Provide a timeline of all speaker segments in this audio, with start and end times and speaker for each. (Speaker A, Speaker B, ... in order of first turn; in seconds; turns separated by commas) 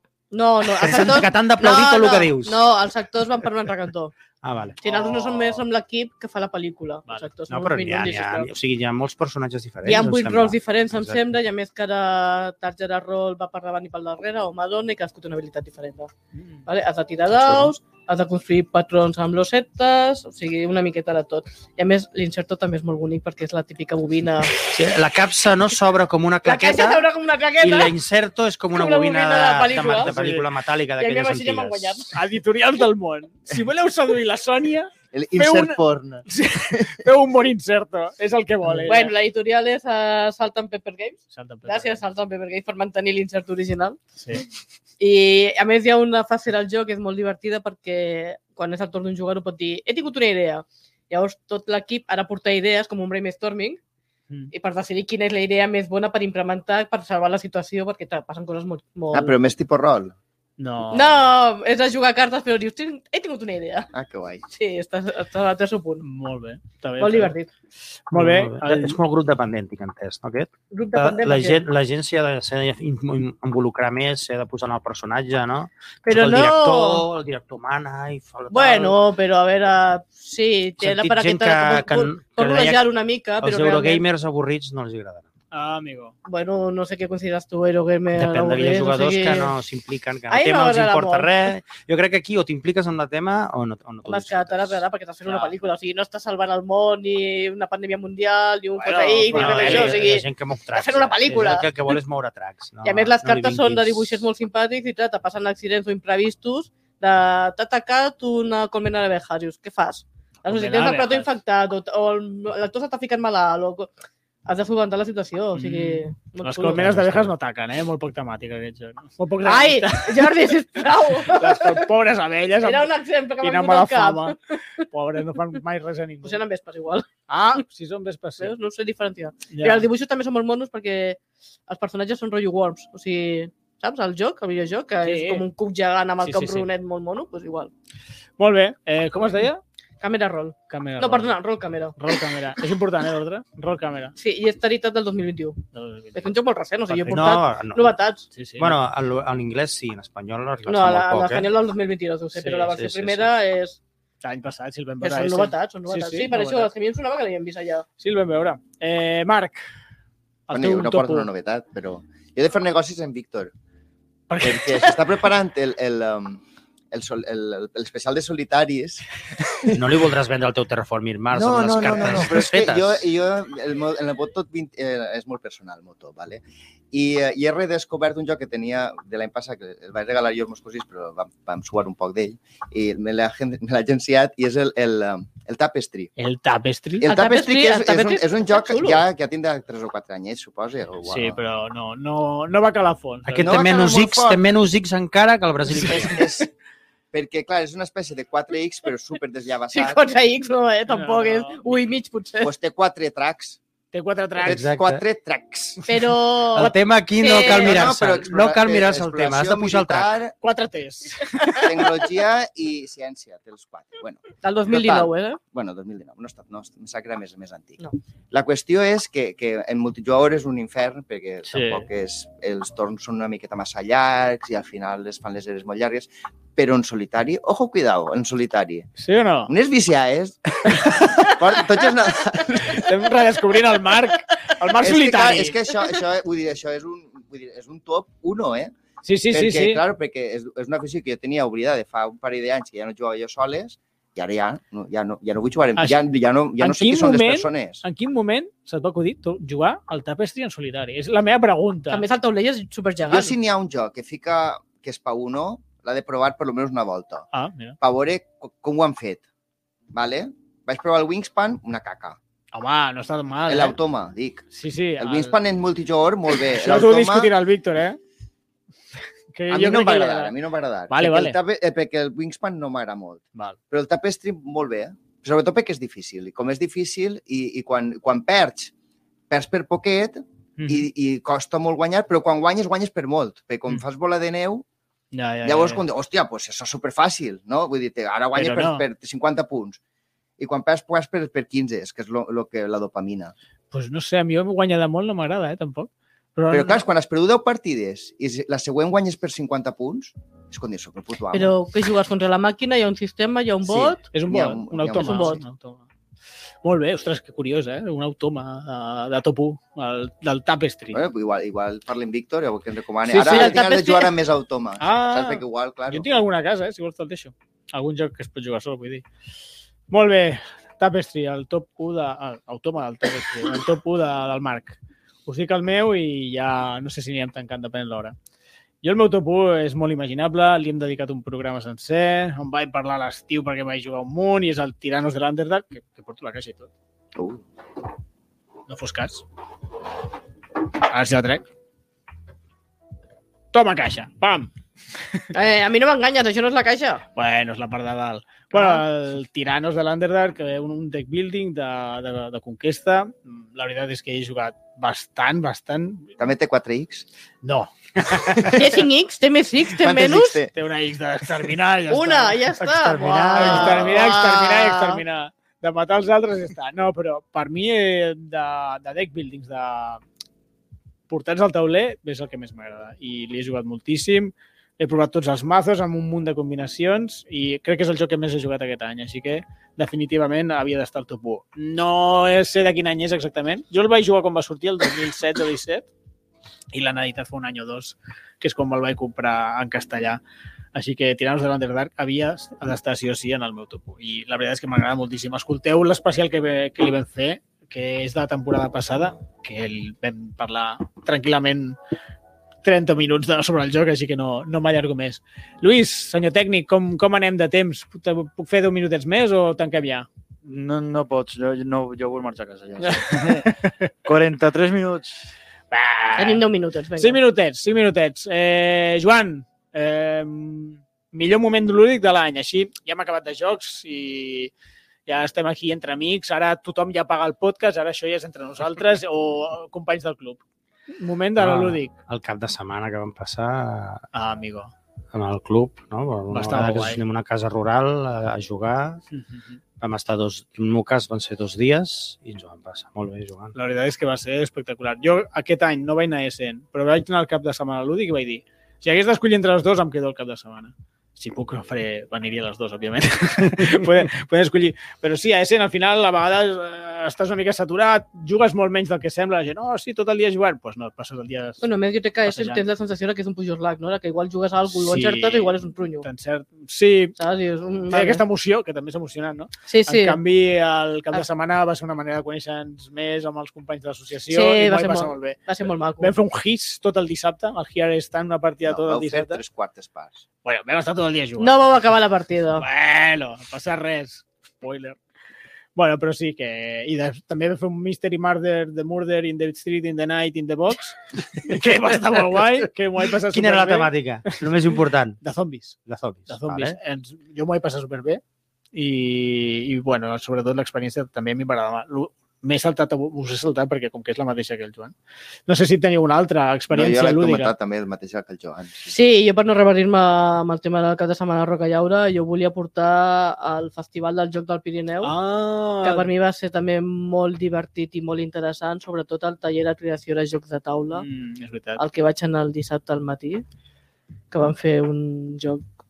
Speaker A: 0.3-4.1, Speaker B: 0.7-2.7, Speaker B: 4.4-4.8, Speaker C: 4.8-5.6, Speaker A: 4.8-8.5, Speaker C: 7.1-7.3, Speaker B: 7.5-11.2, Speaker A: 9.8-16.1, Speaker C: 16.3-16.6, Speaker A: 16.6-24.6, Speaker B: 24.6-32.1, Speaker A: 26.4-27.9, Speaker A: 28.7-30.2, Speaker C: 30.0-30.4, Speaker A: 31.0-32.1, Speaker C: 32.1-39.1, Speaker D: 35.1-36.9, Speaker A: 38.8-44.0, Speaker C: 41.3-42.0, Speaker C: 44.2-44.5, Speaker A: 45.0-53.8, Speaker A: 54.5-59.4, Speaker D: 59.1-60.1, Speaker C: 60.6-61.1, Speaker A: 60.9-63.9, Speaker D: 63.9-64.5, Speaker A: 64.5-66.0, Speaker C: 66.0-67.3, Speaker A: 67.0-67.5, Speaker C: 68.1-69.0, Speaker B: 68.1-79.0, Speaker A: 70.7-71.6, Speaker A: 76.0-77.0, Speaker A: 78.5-84.0, Speaker B: 80.8-82.9, Speaker B: 83.4-85.3, Speaker C: 85.5-86.1, Speaker A: 86.2-89.5, Speaker B: 88.2-94.8, Speaker A: 90.3-91.3, Speaker A: 94.0-101.7, Speaker C: 95.2-95.5, Speaker C: 98.7-100.1, Speaker B: 99.3-104.2, Speaker A: 102.8-113.9, Speaker C: 110.5-111.3, Speaker A: 114.5-116.9, Speaker C: 115.5-120.4, Speaker B: 116.8-117.3, Speaker A: 119.4-121.9, Speaker C: 121.2-126.4, Speaker A: 122.6-124.8, Speaker A: 126.2-127.1, Speaker C: 127.3-128.5, Speaker A: 128.4-137.7, Speaker C: 129.5-129.9, Speaker C: 135.0-135.4, Speaker C: 136.2-136.7, Speaker C: 138.4-139.6, Speaker A: 140.0-142.2, Speaker C: 140.7-141.3, Speaker C: 142.0-144.1, Speaker A: 144.2-145.6, Speaker C: 145.7-146.2, Speaker A: 146.1-148.2, Speaker B: 146.9-147.9, Speaker C: 148.3-148.8, Speaker B: 148.6-151.5, Speaker A: 150.7-153.8, Speaker C: 152.4-152.7, Speaker B: 152.7-153.3, Speaker C: 154.2-156.7, Speaker A: 155.0-157.8, Speaker C: 158.0-159.6, Speaker C: 160.5-161.3, Speaker D: 160.5-163.5, Speaker C: 164.3-165.0, Speaker D: 164.4-169.7, Speaker B: 169.7-173.1, Speaker D: 171.3-186.1, Speaker C: 186.2-187.1, Speaker D: 187.0-191.4, Speaker A: 187.0-189.0, Speaker C: 191.0-193.6, Speaker B: 193.3-196.2, Speaker D: 193.3-194.4, Speaker D: 195.8-196.5, Speaker D: 197.1-200.1, Speaker A: 199.7-202.5, Speaker C: 200.9-201.8, Speaker D: 202.4-203.6, Speaker C: 203.9-204.6, Speaker D: 204.4-205.8, Speaker B: 204.4-205.0, Speaker A: 205.8-207.8, Speaker B: 206.5-210.1, Speaker D: 207.2-210.3, Speaker C: 210.4-211.8, Speaker D: 211.6-217.8, Speaker A: 214.4-215.4, Speaker D: 218.3-228.9, Speaker C: 221.5-221.8, Speaker C: 229.0-229.5, Speaker D: 229.4-232.9, Speaker C: 230.9-231.3, Speaker C: 232.7-235.6, Speaker D: 234.7-238.7, Speaker C: 239.0-239.8, Speaker D: 239.3-247.8, Speaker C: 246.6-252.0, Speaker A: 251.9-253.3, Speaker D: 253.1-257.3, Speaker C: 257.3-257.8, Speaker D: 257.8-259.2, Speaker D: 259.9-262.2, Speaker C: 262.5-263.8, Speaker D: 263.5-264.4, Speaker C: 264.5-265.3, Speaker D: 265.0-267.3, Speaker C: 266.4-268.0, Speaker C: 269.3-270.3, Speaker D: 269.5-278.7, Speaker C: 270.9-271.4, Speaker D: 279.3-284.6, Speaker C: 280.6-280.9, Speaker C: 285.1-285.8, Speaker D: 285.4-289.8, Speaker C: 288.4-288.9, Speaker D: 290.4-293.3, Speaker C: 293.7-296.8, Speaker D: 296.5-301.5, Speaker A: 301.3-304.0, Speaker D: 303.6-305.4, Speaker C: 304.1-305.8, Speaker A: 304.9-305.4, Speaker C: 306.6-311.0, Speaker D: 310.9-316.1, Speaker C: 313.1-313.6, Speaker A: 313.1-314.1, Speaker C: 314.8-319.0, Speaker C: 319.9-328.1, Speaker C: 328.8-336.7, Speaker D: 337.1-337.4, Speaker C: 338.7-339.2, Speaker C: 340.9-341.4, Speaker C: 343.5-344.5, Speaker A: 345.3-347.0, Speaker C: 347.1-356.1, Speaker A: 348.5-348.8, Speaker D: 356.2-357.1, Speaker C: 357.4-358.6, Speaker A: 358.5-360.4, Speaker D: 359.8-360.5, Speaker C: 360.5-362.4, Speaker A: 361.9-365.0, Speaker B: 362.6-363.9, Speaker C: 363.3-370.0, Speaker C: 371.1-385.9, Speaker C: 386.7-390.2, Speaker C: 390.7-401.8, Speaker C: 402.6-410.1, Speaker E: 410.4-415.2, Speaker C: 412.8-413.9, Speaker C: 415.7-416.4, Speaker A: 416.2-417.2, Speaker C: 417.0-424.5, Speaker C: 425.1-430.4, Speaker C: 430.9-431.9, Speaker B: 431.4-434.0, Speaker C: 434.1-434.7, Speaker B: 435.1-439.0, Speaker C: 436.3-437.0, Speaker C: 439.1-439.6, Speaker B: 439.8-443.5, Speaker C: 443.5-461.6, Speaker A: 461.6-466.1, Speaker C: 462.2-462.6, Speaker C: 464.7-467.1, Speaker A: 467.2-468.2, Speaker C: 467.9-475.5, Speaker A: 469.7-470.2, Speaker A: 474.3-476.1, Speaker C: 476.0-479.4, Speaker D: 478.6-480.2, Speaker C: 480.4-481.6, Speaker A: 481.4-482.6, Speaker C: 482.6-485.0, Speaker C: 485.7-494.4, Speaker B: 493.3-495.2, Speaker C: 495.2-498.2, Speaker B: 495.8-496.8, Speaker C: 498.7-504.9, Speaker C: 505.5-507.5, Speaker D: 506.7-508.9, Speaker A: 508.9-515.1, Speaker C: 515.0-516.1, Speaker A: 515.8-521.1, Speaker C: 520.9-521.8, Speaker A: 521.8-523.4, Speaker A: 524.3-525.6